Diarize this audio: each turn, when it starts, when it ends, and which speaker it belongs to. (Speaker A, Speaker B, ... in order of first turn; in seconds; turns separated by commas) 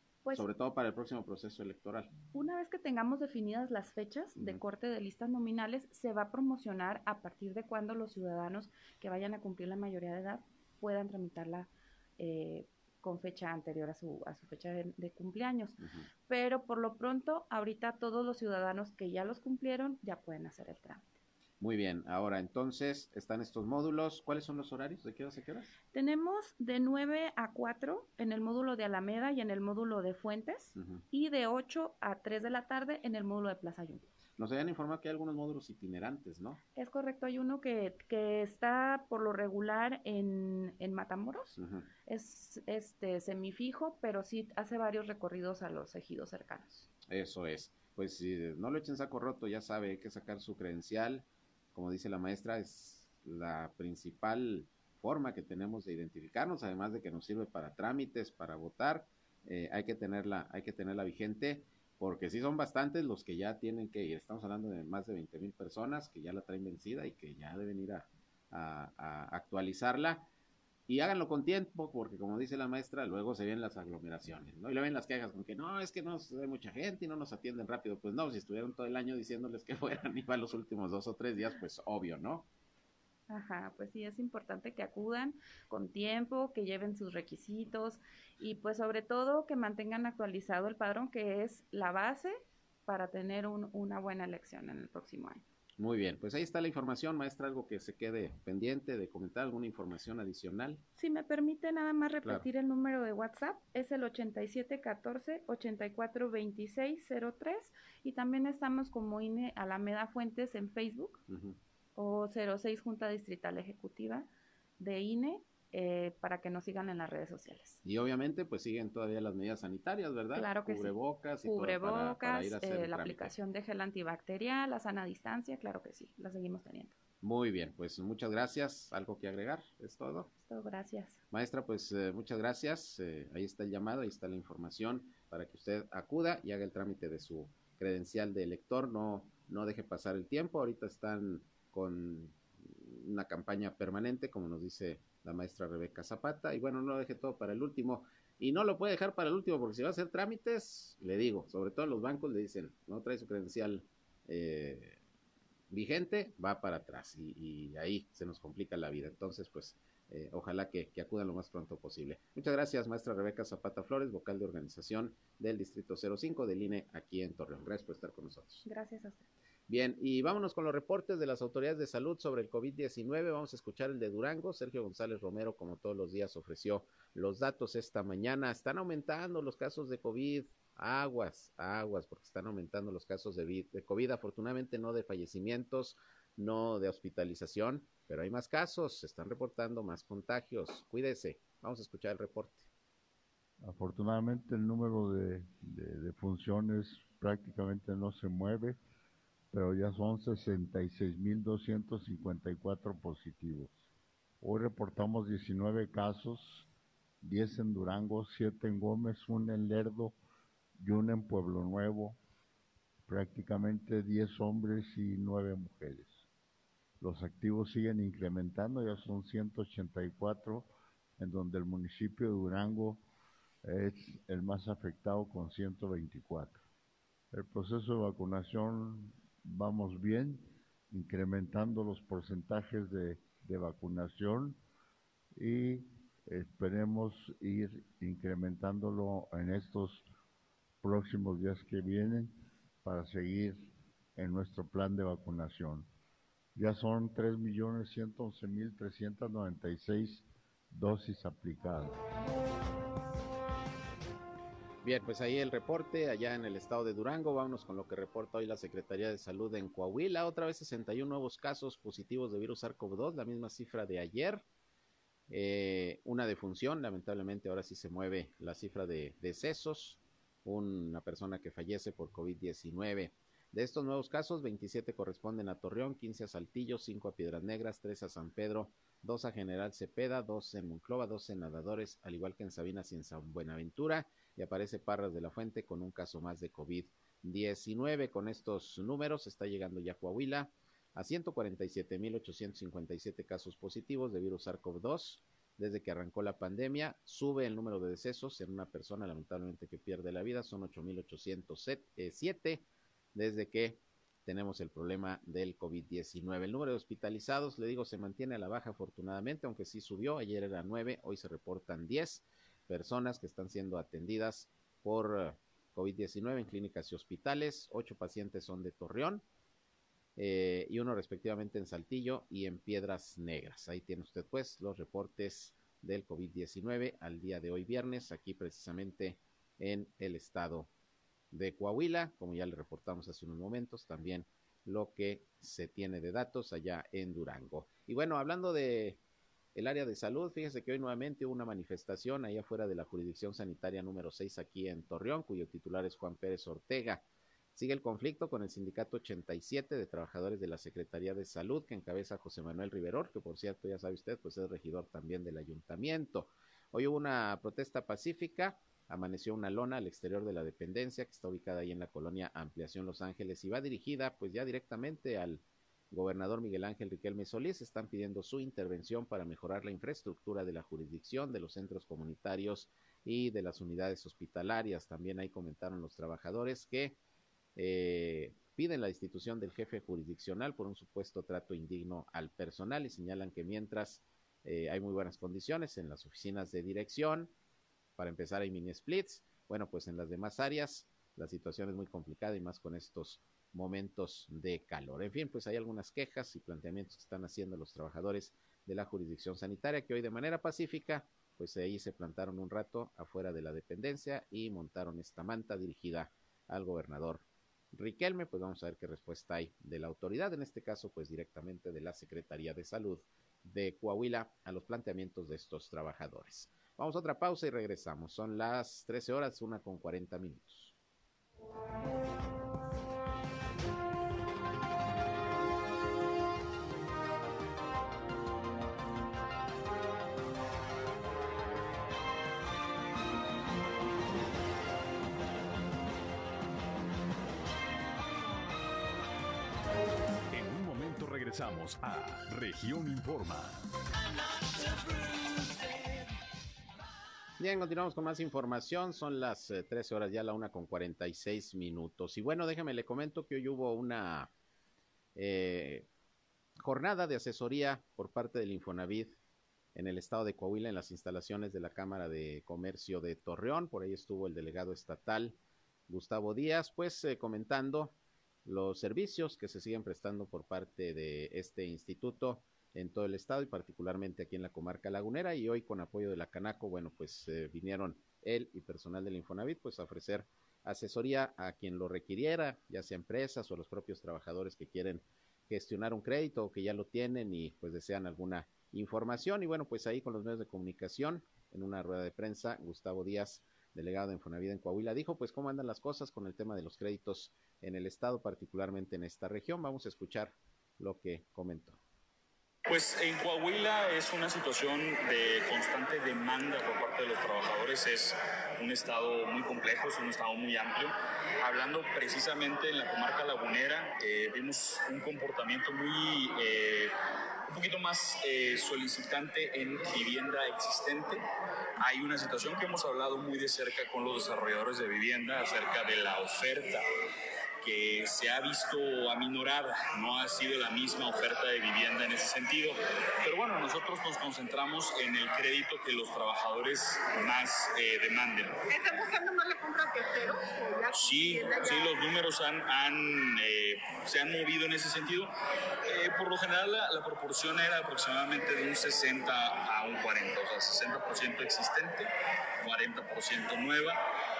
Speaker A: 0.3-2.1, Speaker B: 2.3-21.1, Speaker A: 21.6-25.7, Speaker B: 25.9-34.1, Speaker A: 34.4-36.6, Speaker B: 36.8-46.9, Speaker A: 41.6-41.9, Speaker A: 47.1-70.3, Speaker A: 70.9-82.5, Speaker B: 83.3-95.4, Speaker A: 95.8-100.8, Speaker B: 101.0-111.2, Speaker A: 111.3-111.6, Speaker B: 112.0-117.8, Speaker A: 117.8-123.3, Speaker B: 120.3-127.0, Speaker A: 127.2-130.3, Speaker B: 130.4-131.2, Speaker A: 131.3-155.0, Speaker A: 155.7-168.6, Speaker B: 168.6-169.3, Speaker A: 169.7-192.7, Speaker C: 193.6-198.8, Speaker C: 199.5-203.8, Speaker C: 204.4-206.7, Speaker C: 207.2-210.2, Speaker C: 210.8-212.2, Speaker C: 213.1-216.2, Speaker C: 217.0-223.0, Speaker C: 223.6-226.6, Speaker C: 227.3-234.6, Speaker C: 235.4-240.1, Speaker C: 240.8-245.9, Speaker C: 246.6-252.0, Speaker A: 254.8-264.4, Speaker A: 265.3-319.2, Speaker A: 320.1-330.7, Speaker A: 331.3-339.0, Speaker A: 339.6-347.0, Speaker A: 347.6-377.0, Speaker A: 377.6-387.3, Speaker A: 388.0-420.8, Speaker D: 440.3-443.6, Speaker A: 447.4-454.3, Speaker A: 455.1-455.9, Speaker A: 456.6-459.2, Speaker A: 459.8-465.4, Speaker A: 465.9-467.9, Speaker A: 468.4-501.8, Speaker E: 502.6-516.9, Speaker E: 517.5-521.2, Speaker E: 521.8-526.8, Speaker E: 527.6-538.6, Speaker F: 538.7-542.0, Speaker E: 540.9-545.3, Speaker E: 545.9-552.1, Speaker E: 552.6-554.0